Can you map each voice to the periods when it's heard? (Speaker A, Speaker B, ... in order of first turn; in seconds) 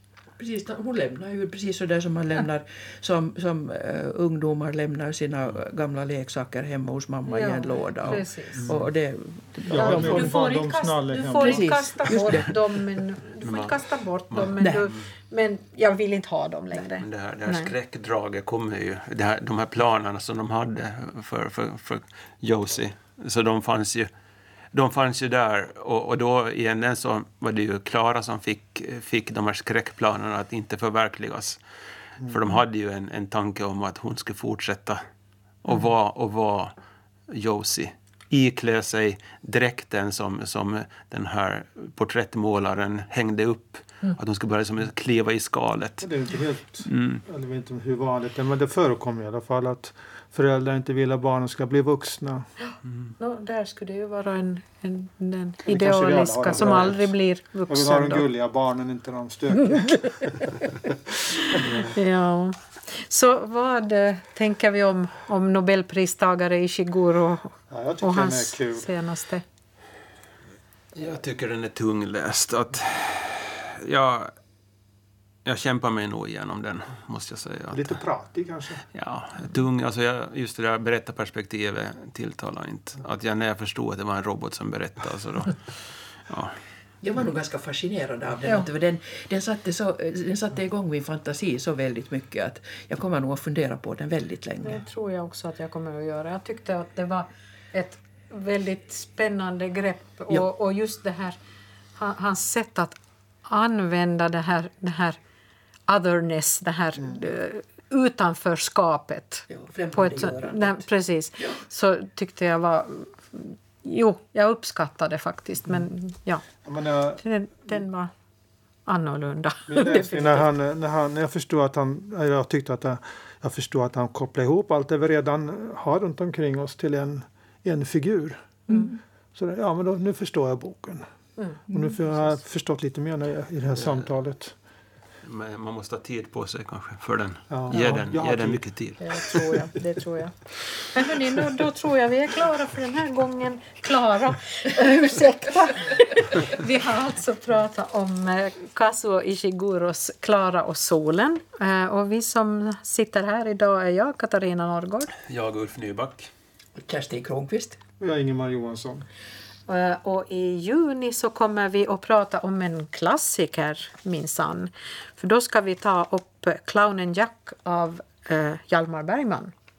Speaker A: 0.4-10.3, 11.4-12.6, 14.5-14.9, 87.0-94.8, 109.5-110.9, 128.7-129.0, 131.7-132.0, 156.8-157.8
Speaker B: 7.3-8.7, 9.7-17.7, 52.7-58.2, 59.6-60.3, 61.6-69.4, 94.6-101.4, 102.0-105.2, 105.9-116.5, 117.2-118.1, 118.8-120.5, 139.0-155.1, 159.7-169.5
Speaker C: 9.7-11.8, 46.0-52.5, 55.6-57.1, 57.7-60.2, 67.7-68.9, 77.7-78.8, 116.6-117.2, 119.7-128.7, 129.3-131.1, 131.7-134.5, 137.5-138.6, 158.0-159.1
Speaker D: 13.4-15.1, 17.0-24.1, 24.7-31.6, 32.2-35.0, 35.6-36.7, 37.3-46.1, 46.8-47.2, 70.9-74.3, 75.4-78.0, 78.9-86.6, 133.8-134.0, 135.2-139.4, 155.3-156.3